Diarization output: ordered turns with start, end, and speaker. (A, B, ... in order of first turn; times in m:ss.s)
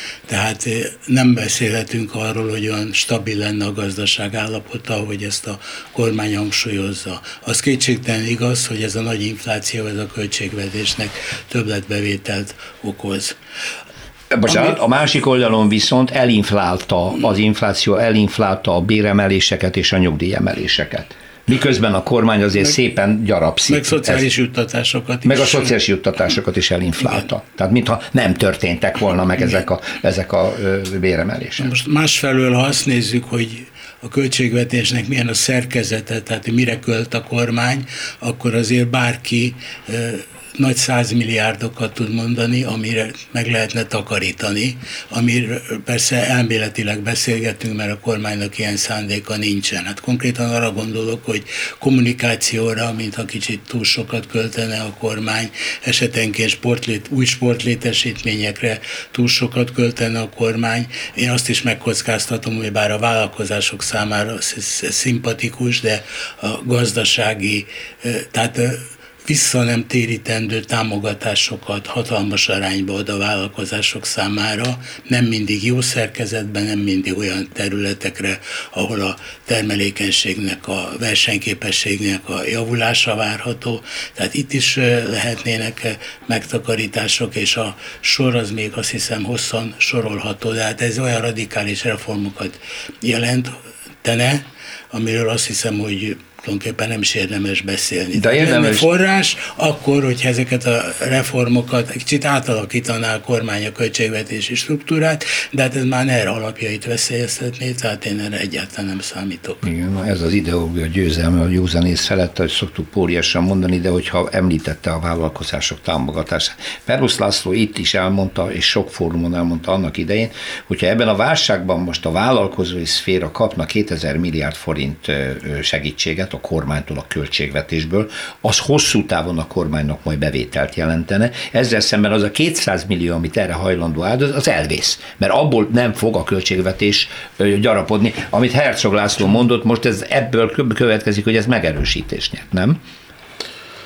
0:00.3-0:13.4 A
0:14.3-0:24.2 B
0:14.5-0:14.8 A
0:23.7-0:25.8 A
0:25.2-0:31.7 B
0:31.6-1:49.6 A
1:38.2-1:38.9 B
1:49.6-2:22.8 B